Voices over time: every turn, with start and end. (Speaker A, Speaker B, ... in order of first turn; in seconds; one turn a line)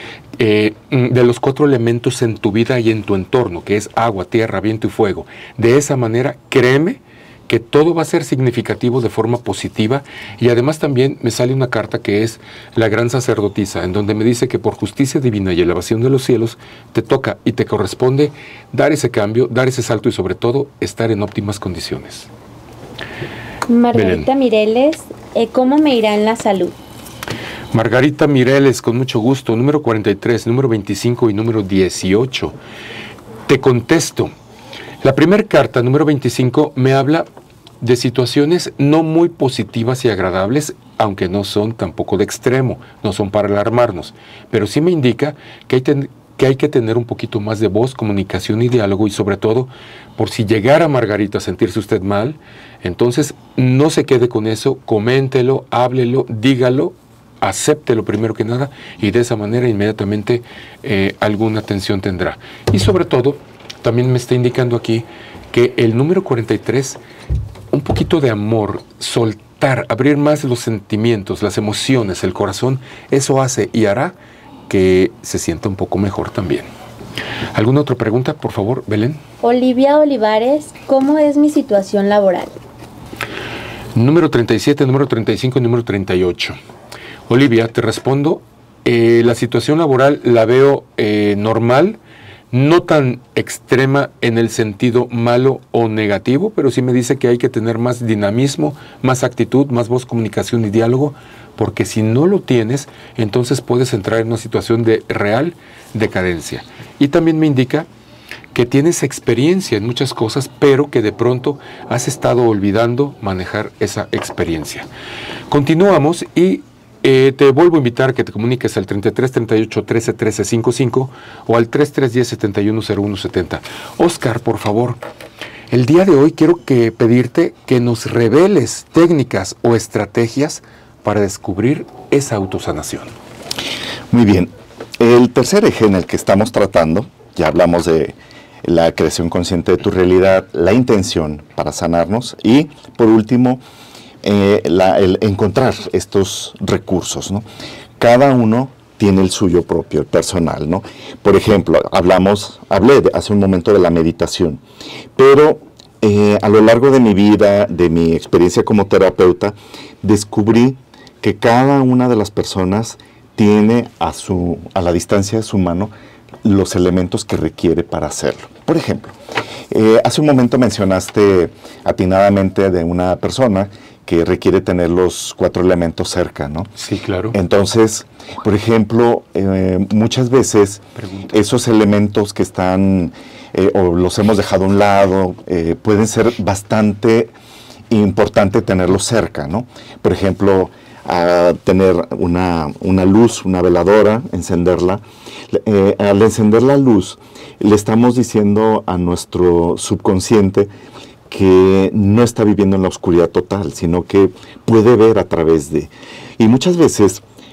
Speaker A: 0.4-22.3
Speaker B: 23.7-26.8
Speaker A: 23.9-24.3
Speaker A: 27.7-32.6
Speaker A: 33.5-34.3
Speaker A: 35.0-37.3
Speaker A: 37.8-67.0
Speaker A: 67.7-74.2
Speaker A: 74.7-76.7
Speaker A: 77.5-79.2
Speaker B: 79.4-82.5
Speaker A: 84.0-86.6
Speaker A: 87.3-92.0
Speaker A: 92.5-107.9
Speaker A: 108.5-114.9
Speaker A: 115.5-125.0
Speaker A: 125.7-133.1
Speaker C: 134.1-143.6
Speaker C: 144.2-147.5
Speaker C: 148.0-154.6
Speaker C: 155.2-165.9
Speaker C: 166.4-169.2
Speaker C: 169.7-176.7
Speaker A: 176.8-177.4
Speaker C: 177.3-187.3
Speaker C: 187.9-200.7
Speaker C: 201.3-207.2